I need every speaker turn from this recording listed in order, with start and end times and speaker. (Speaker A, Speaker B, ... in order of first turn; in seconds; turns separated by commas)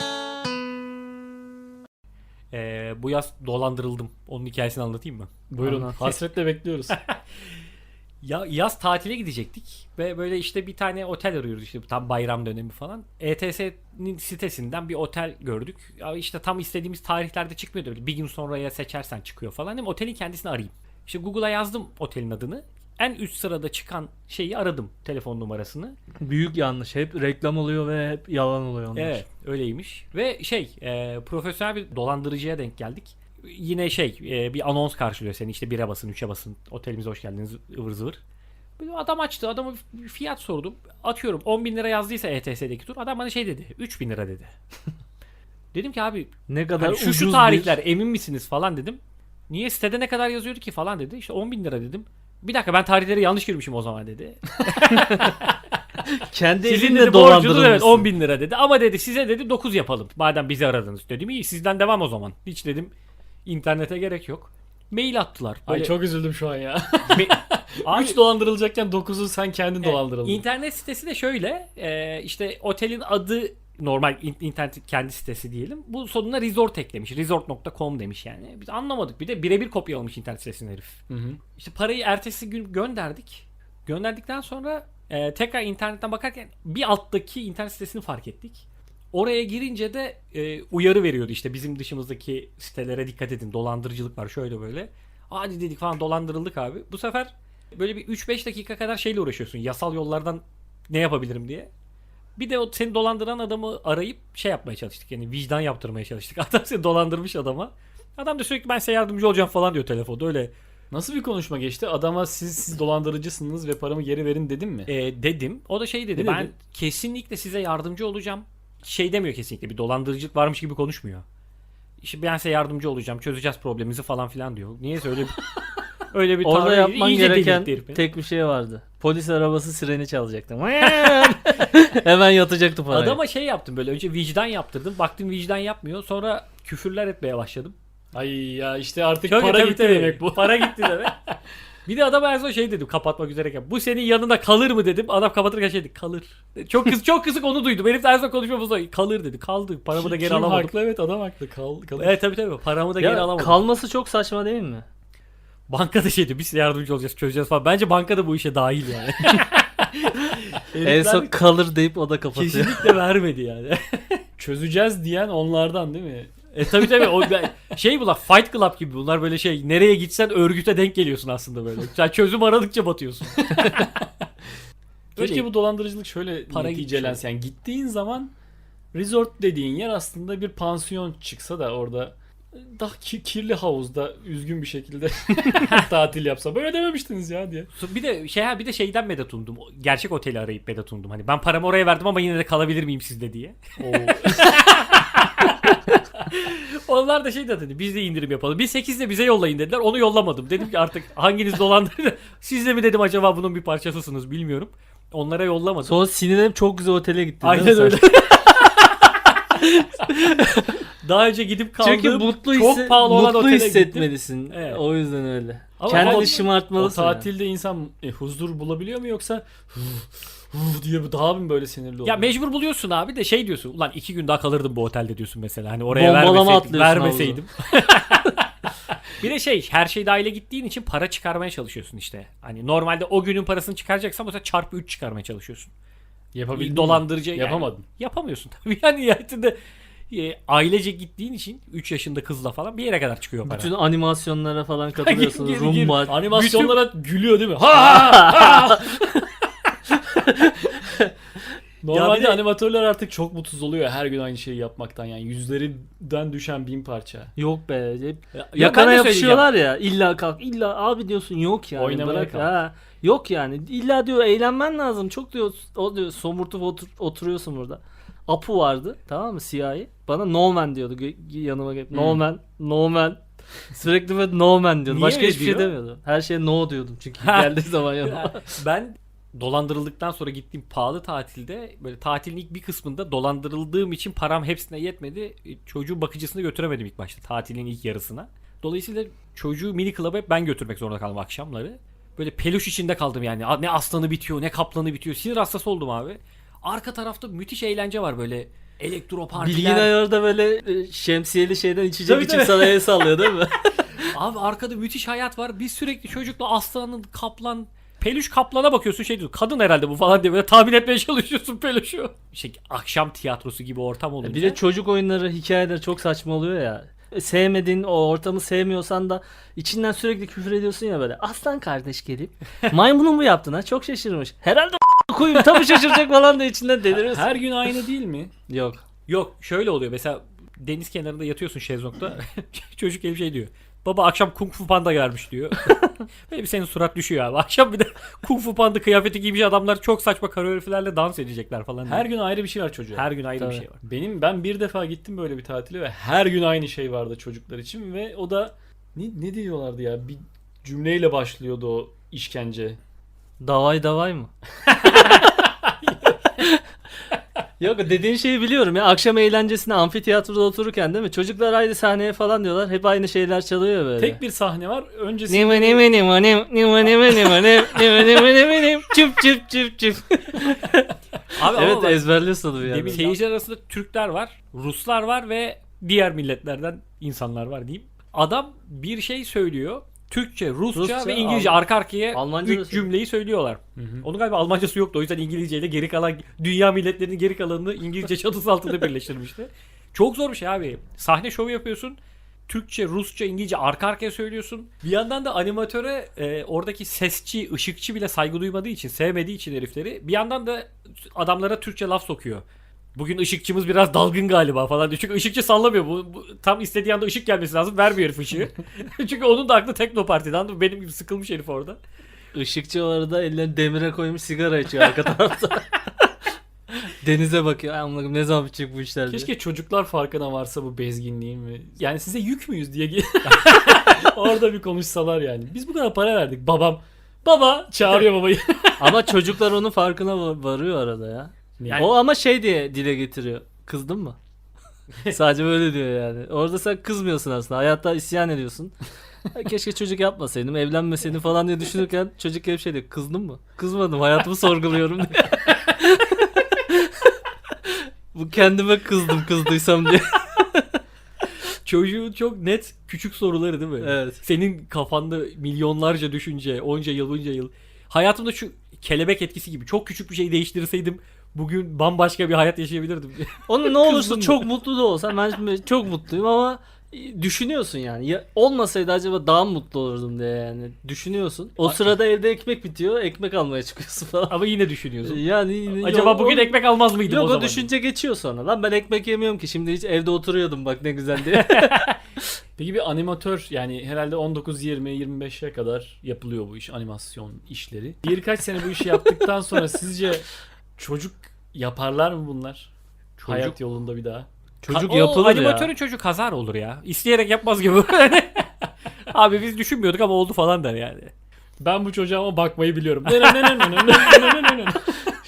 Speaker A: 2.5-5.3, Speaker B: 5.5-7.0, Speaker C: 5.6-6.0, Speaker A: 6.9-7.2, Speaker A: 8.2-26.0, Speaker C: 26.2-29.2, Speaker A: 28.9-38.2, Speaker A: 38.8-44.5, Speaker A: 45.7-55.5, Speaker C: 46.5-47.7, Speaker C: 56.3-58.1, Speaker A: 56.6-62.9, Speaker A: 63.5-65.9, Speaker B: 65.7-70.4, Speaker A: 67.1-68.2, Speaker A: 69.8-81.0, Speaker B: 81.1-81.4, Speaker A: 81.6-101.7, Speaker A: 102.4-110.5, Speaker B: 110.9-114.9, Speaker A: 114.9-121.2, Speaker C: 116.2-116.5, Speaker A: 122.0-125.4, Speaker A: 126.1-128.1, Speaker C: 126.4-133.2, Speaker A: 132.9-137.8, Speaker B: 138.1-141.3, Speaker A: 139.3-141.2, Speaker A: 141.9-150.7, Speaker B: 149.9-152.2, Speaker A: 152.0-153.6, Speaker C: 153.0-154.8, Speaker A: 155.7-161.3, Speaker C: 160.8-162.9, Speaker A: 162.3-164.2, Speaker B: 164.4-166.3, Speaker A: 166.5-173.9, Speaker B: 166.9-167.3, Speaker B: 173.4-173.9, Speaker A: 175.2-175.5, Speaker B: 175.2-178.3, Speaker A: 176.5-177.2, Speaker B: 178.9-187.7, Speaker A: 187.7-206.0, Speaker B: 193.8-194.6, Speaker C: 205.8-208.1, Speaker A: 207.4-214.8, Speaker C: 209.7-210.8, Speaker C: 211.8-217.3, Speaker A: 215.8-216.5, Speaker B: 215.9-222.3, Speaker A: 222.1-228.5, Speaker C: 225.9-227.4, Speaker A: 229.0-235.7, Speaker B: 236.3-237.8, Speaker A: 236.6-239.6, Speaker A: 240.1-243.7, Speaker C: 243.4-246.2, Speaker A: 245.0-246.8, Speaker B: 246.1-249.3, Speaker C: 250.2-251.1, Speaker B: 251.8-257.3, Speaker A: 251.9-252.4, Speaker C: 257.4-278.6, Speaker A: 258.3-259.5, Speaker B: 261.8-262.5, Speaker A: 274.9-275.8, Speaker A: 277.2-299.9, Speaker C: 299.4-304.1, Speaker A: 302.1-303.3, Speaker A: 304.0-314.6, Speaker C: 314.2-327.4, Speaker B: 326.9-328.3, Speaker C: 328.5-328.8, Speaker A: 329.1-335.8, Speaker A: 336.3-342.1, Speaker B: 341.9-343.1, Speaker A: 342.9-343.8, Speaker C: 343.4-343.6, Speaker B: 343.8-352.8, Speaker C: 353.4-354.3, Speaker C: 357.6-364.2, Speaker B: 364.0-365.8, Speaker C: 365.3-373.1, Speaker A: 371.3-372.1, Speaker A: 372.6-402.4, Speaker C: 380.7-381.6, Speaker C: 382.1-382.9, Speaker B: 383.8-384.1, Speaker A: 402.9-411.8, Speaker C: 412.3-415.7, Speaker C: 417.0-419.3, Speaker B: 419.1-429.1, Speaker A: 423.3-423.9, Speaker C: 428.8-434.2, Speaker B: 431.6-431.9, Speaker A: 431.6-431.9, Speaker C: 435.1-438.8, Speaker C: 439.3-450.8, Speaker A: 451.5-464.5, Speaker C: 453.8-454.2, Speaker C: 463.5-474.4, Speaker A: 474.3-477.7, Speaker C: 475.0-481.9, Speaker A: 481.3-481.9, Speaker B: 482.6-490.3, Speaker B: 490.8-492.7, Speaker A: 493.2-493.6, Speaker B: 493.3-494.3, Speaker C: 494.6-495.7, Speaker A: 494.7-501.1, Speaker B: 501.6-505.1, Speaker A: 503.4-504.0